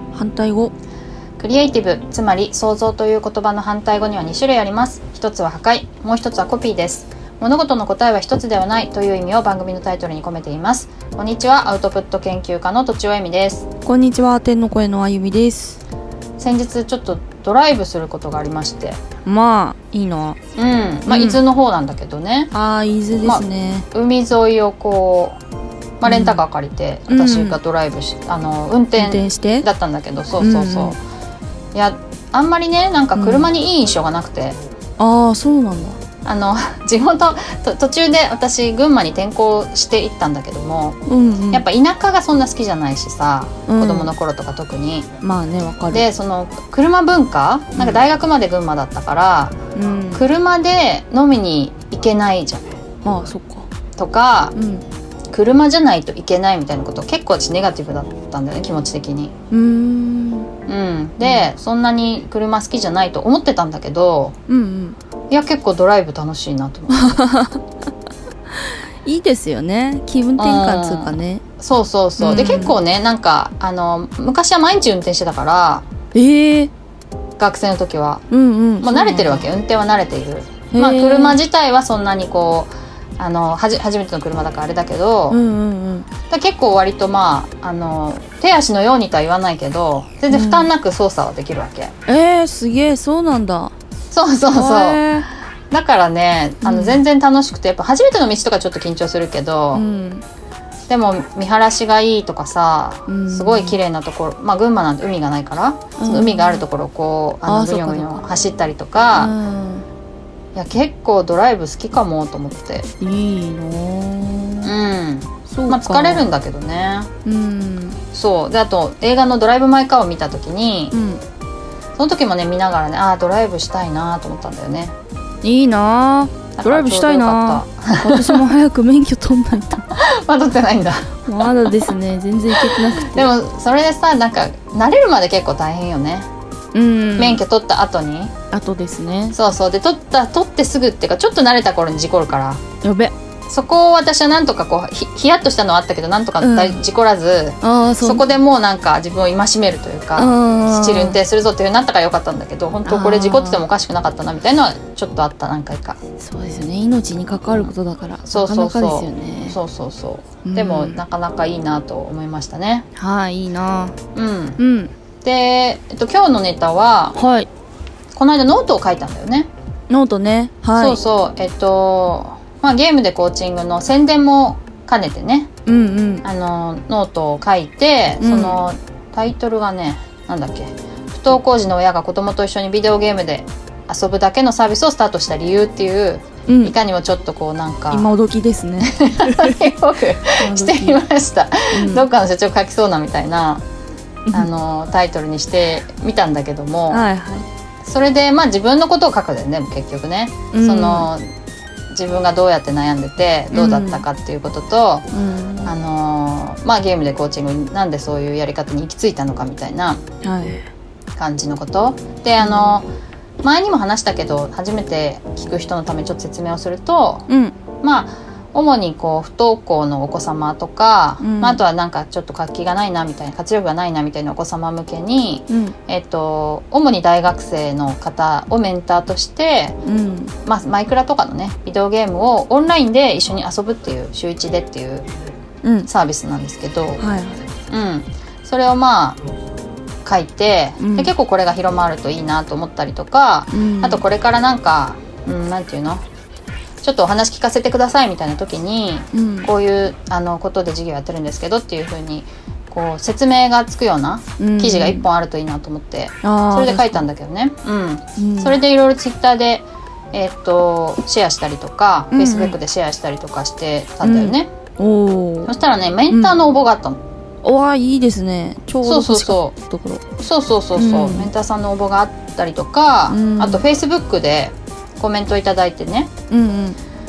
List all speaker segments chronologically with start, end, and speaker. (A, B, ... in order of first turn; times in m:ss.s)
0:00.1-0:00.7 A
0:01.4-0:13.7 B
0:13.8-0:15.8 A
0:16.4-0:19.0 B
0:19.2-0:20.4 A
0:20.6-0:22.5 B
0:21.0-0:21.4 A
0:22.5-0:23.9 A
0:23.2-0:25.4 B
0:26.0-0:31.0 B
0:26.0-0:26.4 A
0:27.1-0:27.6 A
0:29.0-0:29.7 A
0:30.4-0:31.0 A
0:31.7-0:34.6 B
0:33.1-0:33.5 A
0:35.0-0:36.0 A
0:36.2-0:41.0 B
0:41.0-0:41.6 A
0:41.5-0:45.1 B
0:43.7-0:44.1 A
0:45.2-0:46.1 A
0:45.9-0:49.6 B
0:47.7-0:48.0 A
0:49.7-0:50.3 A
0:50.1-0:52.7 B
0:53.0-0:53.7 A
0:54.0-0:54.5 B
0:54.5-0:54.8 A
0:55.3-0:59.3 B
0:59.5-1:00.5 A
1:00.7-1:04.4 B
1:01.2-1:01.5 A
1:04.5-1:05.0 A
1:05.3-1:07.2 B
1:06.9-1:07.6 A
1:09.0-1:11.4 A
1:10.4-1:15.8 B
1:12.2-1:12.8 A
1:16.1-1:16.7 A
1:17.4-1:18.2 B
1:18.3-1:19.5 A
1:18.8-1:25.4 B
1:20.7-1:21.4 A
1:25.3-1:26.1 A
1:26.3-1:31.9 B
1:30.3-1:30.7 A
1:32.1-1:33.7 A
1:34.1-1:35.0 B
1:34.5-1:35.3 A
1:35.7-1:39.8 B
1:36.6-1:37.0 A
1:39.7-1:40.2 A
1:40.9-1:49.3 B
1:43.1-1:43.8 A
1:46.0-1:46.6 A
1:47.4-1:48.2 A
1:49.1-1:49.8 A
1:50.5-1:52.9 B
1:53.0-1:54.8 A
1:54.6-1:57.1 B
1:55.5-1:56.3 A
1:57.2-1:58.0 A
1:58.1-2:00.9 B
2:00.9-2:01.2 A
2:02.0-2:04.9 B
2:05.4-2:09.8 A
2:06.6-2:08.5 B
2:09.9-2:11.9 B
2:11.2-2:13.3 A
2:12.5-2:16.3 B
2:16.7-2:17.4 A
2:17.2-2:18.3 B
2:18.5-2:19.3 A
2:19.3-2:22.6 B
2:22.8-2:23.1 A
2:23.5-2:36.0 B
2:26.4-2:26.8 A
2:27.6-2:28.2 A
2:30.1-2:31.2 A
2:32.8-2:33.6 A
2:36.2-2:39.6 A
2:38.2-2:42.8 B
2:40.4-2:41.0 A
2:43.0-2:44.0 A
2:44.1-2:44.6 B
2:44.6-2:44.9 A
2:45.2-2:47.2 B
2:47.1-2:47.5 A
2:48.1-2:49.5 B
2:49.9-2:51.0 A
2:50.7-2:55.5 B
2:55.6-2:56.2 A
2:56.2-3:08.1 B
2:58.2-2:58.6 A
3:06.5-3:06.8 A
3:07.9-3:09.7 A
3:08.8-3:13.6 B
3:10.4-3:11.0 A
3:11.7-3:12.0 A
3:14.3-3:17.0 B
3:16.9-3:17.5 A
3:17.8-3:21.3 B
3:20.5-3:21.1 A
3:21.9-3:25.1 B
3:23.5-3:24.0 A
3:25.1-3:25.7 A
3:25.6-3:30.0 B
3:30.2-3:30.7 A
3:31.2-3:32.9 B
3:32.4-3:32.8 A
3:33.4-3:37.3 B
3:37.3-3:37.5 A
3:37.8-3:49.8 B
3:41.2-3:41.6 A
3:45.5-3:45.7 A
3:49.8-3:50.3 A
3:50.4-3:55.1 B
3:55.6-3:55.9 A
3:55.8-3:57.0 B
3:57.0-3:57.4 A
3:57.7-3:59.2 B
4:00.0-4:06.0 B
4:00.8-4:01.1 A
4:03.5-4:04.0 A
4:06.8-4:24.5 B
4:09.1-4:09.5 A
4:14.4-4:15.0 A
4:16.2-4:17.0 A
4:18.2-4:18.6 A
4:22.1-4:22.6 A
4:24.0-4:25.5 A
4:25.4-4:27.0 B
4:26.1-4:26.4 A
4:27.4-4:30.0 A
4:28.8-4:29.5 B
4:30.2-4:36.1 B
4:30.7-4:31.3 A
4:33.1-4:33.6 A
4:36.3-4:36.8 A